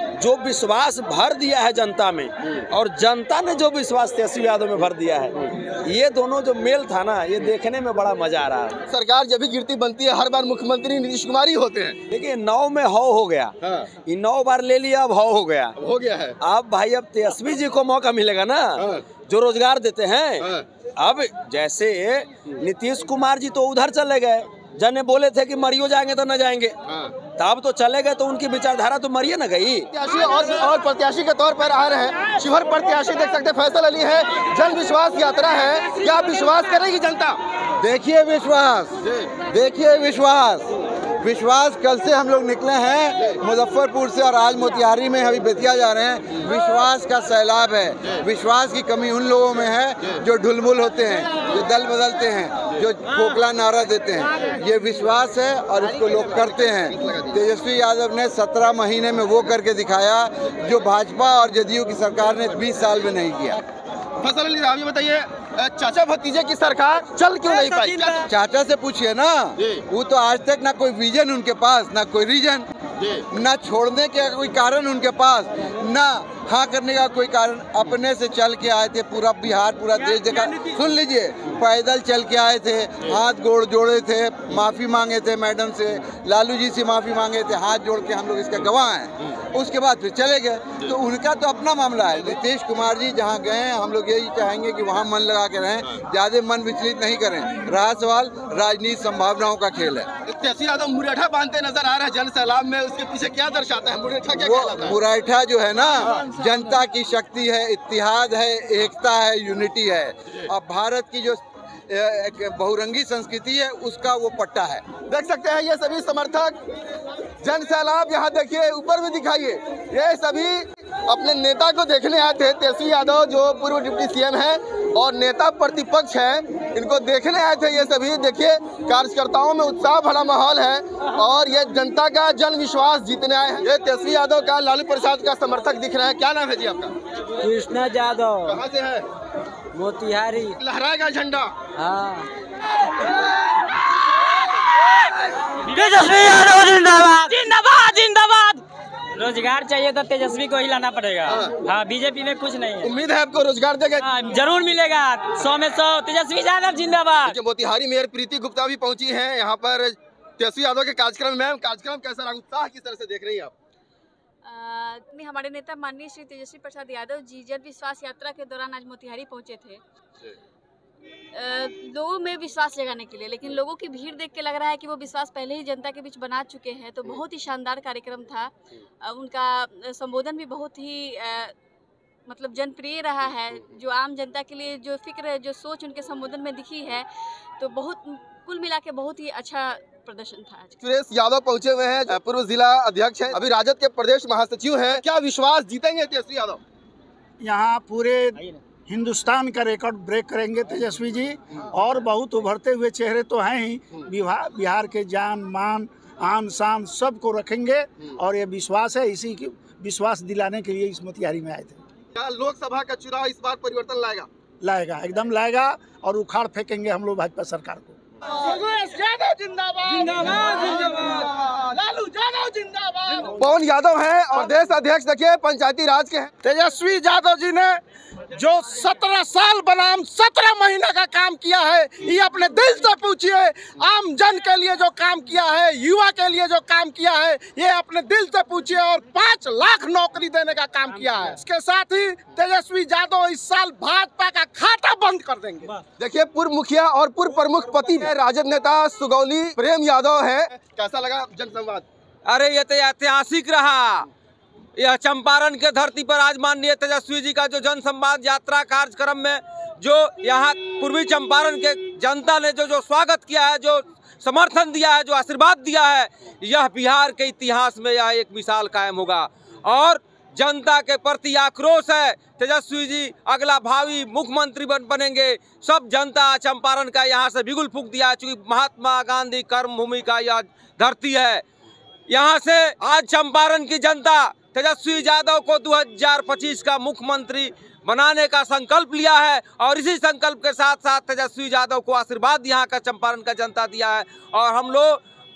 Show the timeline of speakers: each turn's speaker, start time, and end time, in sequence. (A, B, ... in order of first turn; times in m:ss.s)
0:00.2-0:08.8 A
0:08.9-0:12.0 B
0:12.1-0:15.8 A
0:15.8-0:16.4 B
0:16.4-0:26.8 A
0:18.8-0:19.0 B
0:27.4-0:29.9 A
0:29.9-0:37.4 B
0:37.8-0:40.7 C
0:39.0-0:39.3 B
0:41.2-1:03.6 C
0:56.0-0:57.4 B
1:04.2-1:08.3 B
1:08.2-1:12.7 C
1:13.3-1:40.1 C
1:40.3-1:45.0 B
1:44.4-1:54.8 C
1:46.0-1:46.3 B
1:55.1-1:56.6 B
1:57.4-2:17.0 B
2:17.4-2:18.6 D
2:18.4-2:19.1 B
2:19.7-2:20.6 D
2:20.6-2:21.5 B
2:21.8-2:22.3 D
2:25.5-2:32.9 D
2:31.2-2:31.6 B
2:32.8-2:34.1 B
2:34.0-2:37.4 D
2:37.2-2:43.5 B
2:44.4-2:49.8 E
2:51.3-3:01.5 E
3:02.3-3:07.1 E
3:07.6-3:10.8 E
3:10.8-3:16.6 B
3:17.4-3:18.4 F
3:18.9-3:31.8 F
3:32.2-3:34.3 B
3:34.6-3:38.0 F
3:38.3-3:41.2 G
3:41.1-3:41.7 B
3:41.7-3:43.3 G
3:43.4-3:46.3 B
3:46.4-3:47.8 G
3:48.4-4:05.8 G
4:06.0-4:11.9 B
4:12.3-4:14.1 H
4:14.8-4:41.4 H
4:42.1-4:55.0 H